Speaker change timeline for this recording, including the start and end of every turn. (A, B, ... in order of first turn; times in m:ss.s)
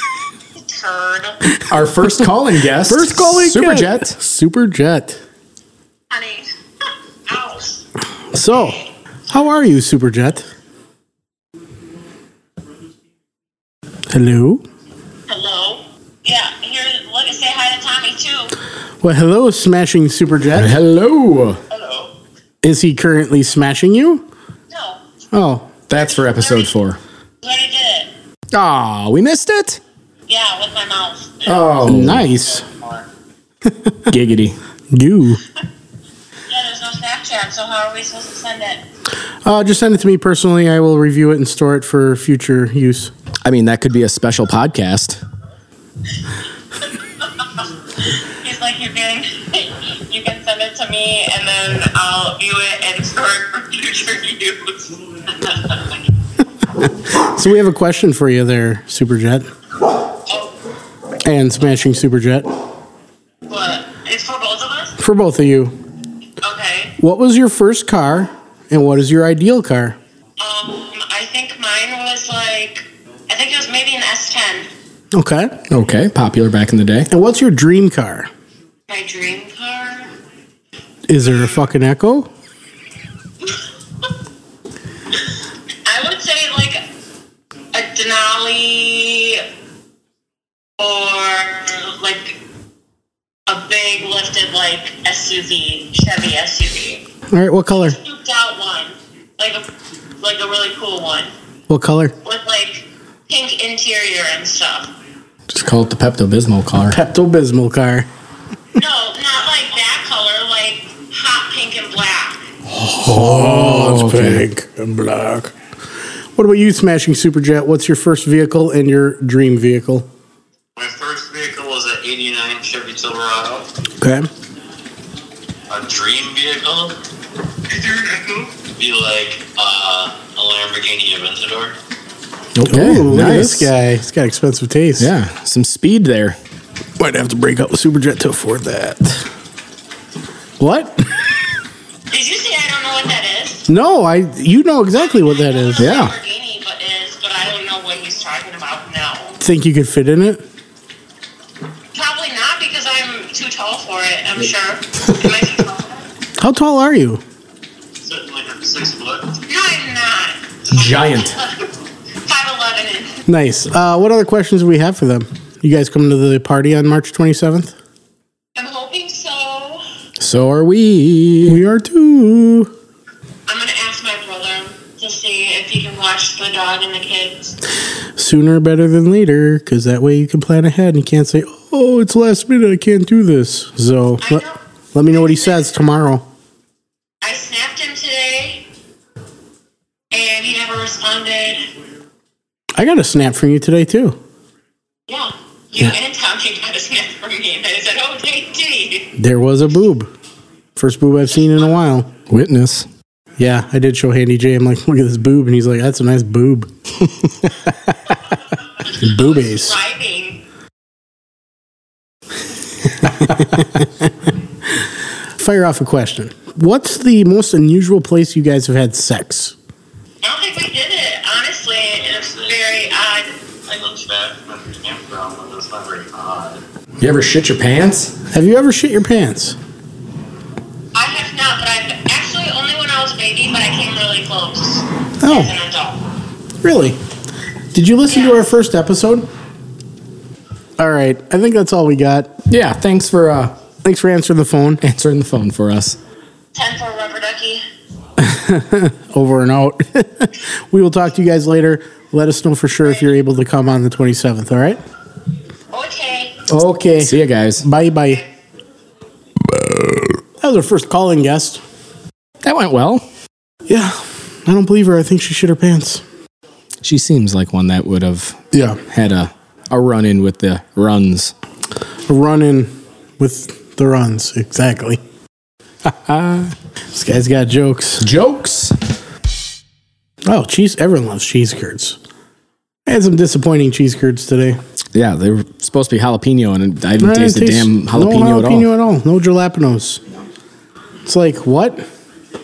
0:00.6-0:01.4 A
0:01.7-0:04.1 B
0:02.8-0:05.2 C
0:06.1-0:06.5 A
0:07.3-0:07.8 A
0:08.3-0:10.5 C
0:08.5-0:08.9 A
0:14.1-0:14.6 C
0:15.3-0:18.5 A
0:19.0-0:20.8 C
0:20.5-0:21.6 B
0:21.7-0:22.1 A
0:22.6-0:24.2 C
0:24.7-0:25.0 A
0:25.3-0:25.7 C
0:25.9-0:27.0 B
0:26.0-0:26.7 A
0:27.4-0:28.1 A
0:28.5-0:29.8 B
0:30.3-0:31.9 A
0:31.4-0:32.2 B
0:31.8-0:32.6 C
0:33.7-0:34.0 C
0:34.1-0:34.6 B
0:34.9-0:35.4 C
0:36.5-0:38.8 A
0:39.4-0:43.1 C
0:43.4-0:45.2 B
0:47.2-0:56.0 A
0:57.0-0:59.5 C
1:00.2-1:00.5 A
1:01.2-1:02.5 C
1:03.5-1:05.0 A
1:05.0-1:05.8 C
1:06.4-1:07.0 A
1:07.0-1:10.0 C
1:10.4-1:14.7 A
1:15.1-1:15.6 C
1:15.7-1:17.1 B
1:17.1-1:18.3 C
1:18.9-1:20.1 A
1:21.1-1:22.3 C
1:25.8-1:26.8 A
1:27.7-1:29.4 A
1:30.8-1:32.4 A
1:33.5-1:37.0 A
1:37.3-1:38.0 C
1:37.8-1:39.7 A
1:40.2-1:41.3 A
1:41.7-1:42.1 C
1:42.2-1:44.9 A
1:45.5-1:47.0 B
1:46.9-1:48.1 C
1:48.7-1:52.5 A
1:52.8-1:55.5 C
1:52.9-1:54.4 B
1:56.4-2:00.1 C
2:00.8-2:03.7 D
2:04.0-2:04.3 C
2:05.7-2:07.0 D
2:07.6-2:11.7 D
2:12.5-2:13.7 B
2:12.6-2:15.1 C
2:15.0-2:16.4 B
2:17.0-2:19.2 C
2:20.6-2:21.1 C
2:22.1-2:23.7 A
2:23.7-2:26.0 C
2:25.1-2:29.4 A
2:25.8-2:26.1 B
2:29.4-2:30.4 C
2:31.9-2:36.0 A
2:36.4-2:37.2 C
2:38.0-2:39.4 D
2:39.5-2:41.6 A
2:40.7-2:41.4 B
2:42.2-2:43.1 A
2:43.2-2:47.7 C
2:48.6-2:49.8 A
2:50.2-2:51.6 B
2:51.4-2:52.7 C
2:53.5-2:57.6 A
2:58.2-3:06.3 C
3:04.2-3:04.6 A
3:05.1-3:05.6 A
3:07.2-3:08.6 A
3:10.1-3:11.6 A
3:12.7-3:14.2 C
3:15.1-3:19.1 A
3:19.2-3:20.1 C
3:20.8-3:22.1 C
3:22.3-3:22.9 B
3:23.4-3:26.7 C
3:28.7-3:30.4 A
3:29.0-3:29.8 C
3:33.2-3:33.9 C
3:35.4-3:39.5 C
3:40.2-3:43.8 A
3:42.0-3:42.9 D
3:43.7-3:46.6 D
3:47.0-3:48.1 B
3:48.3-3:49.6 C
3:50.9-3:56.0 A
3:55.2-3:55.5 C
3:56.6-3:57.0 C
3:57.7-3:59.3 C
3:58.1-3:58.5 A
4:00.8-4:02.4 C
4:02.5-4:03.6 B
4:03.8-4:04.8 C
4:04.8-4:06.0 B
4:06.5-4:07.6 A
4:08.2-4:14.8 C
4:15.7-4:16.4 A
4:16.5-4:18.2 C
4:17.0-4:17.6 B
4:19.8-4:21.6 C
4:22.4-4:23.0 B
4:23.7-4:26.0 C
4:26.8-4:31.3 B
4:28.5-4:28.8 C
4:32.0-4:35.0 C
4:36.0-4:36.5 B
4:36.9-4:38.1 C
4:38.0-4:38.8 B
4:40.2-4:42.0 C
4:42.9-4:44.6 C
4:44.9-4:48.7 B
4:47.0-4:50.0 C
4:51.0-4:51.8 C